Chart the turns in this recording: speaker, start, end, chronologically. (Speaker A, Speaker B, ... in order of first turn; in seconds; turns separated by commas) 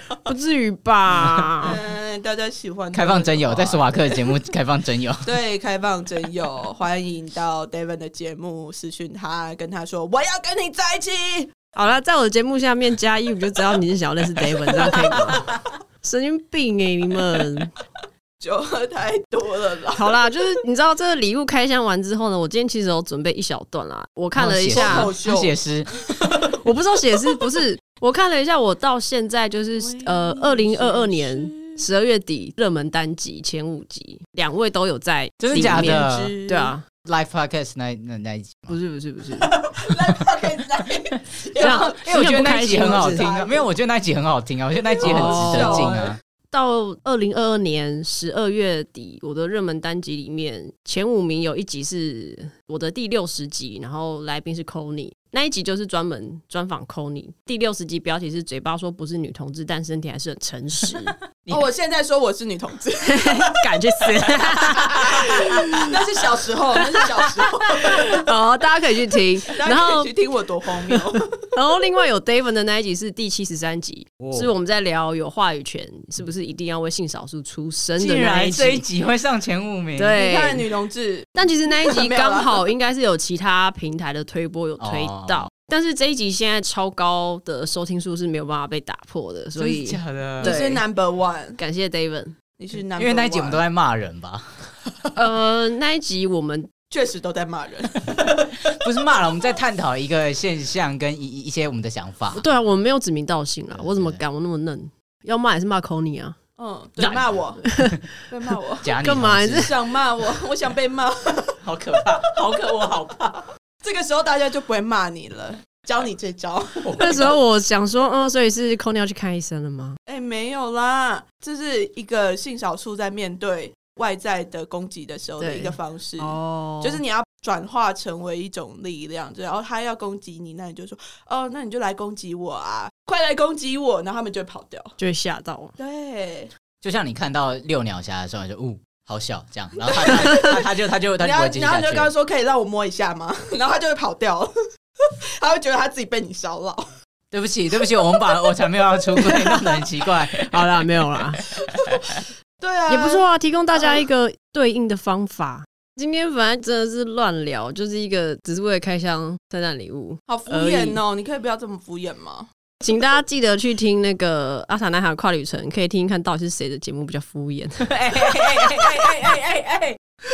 Speaker A: 0.2-1.8, Speaker B: 1.2-1.5, Speaker C: 1.6-4.3, Speaker B: 2.9-5.2, Speaker C: 5.2-11.5, Speaker A: 11.8-15.4, Speaker C: 15.0-15.5, Speaker A: 16.0-17.7, Speaker C: 18.4-20.3, Speaker A: 19.9-25.1, Speaker B: 24.3-25.9, Speaker C: 24.7-26.5, Speaker A: 26.5-36.8, Speaker C: 29.8-31.9, Speaker B: 35.4-36.3, Speaker C: 35.5-36.7, Speaker B: 37.0-38.8, Speaker A: 38.7-39.5, Speaker C: 39.4-43.7, Speaker B: 41.5-46.2, Speaker A: 41.6-43.3, Speaker C: 44.9-46.1, Speaker A: 45.0-46.0, Speaker A: 46.5-61.1, Speaker C: 61.5-63.5, Speaker A: 63.0-65.9, Speaker C: 64.8-68.0, Speaker A: 67.7-70.1, Speaker C: 69.5-71.3, Speaker A: 71.5-78.8, Speaker B: 74.2-74.5, Speaker B: 78.0-80.2, Speaker A: 80.0-80.7, Speaker C: 80.1-82.6, Speaker A: 81.3-90.8, Speaker B: 84.8-85.5, Speaker B: 89.5-90.6, Speaker C: 90.4-91.6, Speaker A: 91.6-92.3, Speaker C: 92.6-93.6, Speaker B: 92.9-94.6, Speaker A: 95.2-96.7, Speaker C: 96.9-98.3, Speaker B: 98.1-102.4, Speaker A: 102.3-106.3, Speaker B: 103.7-104.2, Speaker C: 106.6-107.6, Speaker B: 107.0-108.0, Speaker A: 107.6-107.9, Speaker C: 108.3-109.0, Speaker B: 108.8-109.7, Speaker A: 109.0-109.7, Speaker C: 109.5-111.6, Speaker B: 111.6-113.4, Speaker C: 113.8-117.3, Speaker B: 116.8-117.3, Speaker A: 117.0-120.0, Speaker C: 120.1-134.9, Speaker A: 125.4-127.0, Speaker A: 135.0-135.7, Speaker C: 135.8-136.5, Speaker B: 136.8-142.1, Speaker C: 139.8-140.6, Speaker C: 141.2-144.5, Speaker C: 145.4-146.8, Speaker B: 147.3-150.7, Speaker A: 150.4-151.4, Speaker C: 152.6-153.2, Speaker A: 152.9-161.0, Speaker C: 153.8-154.0, Speaker C: 160.3-162.5, Speaker A: 162.8-167.9, Speaker B: 167.8-170.0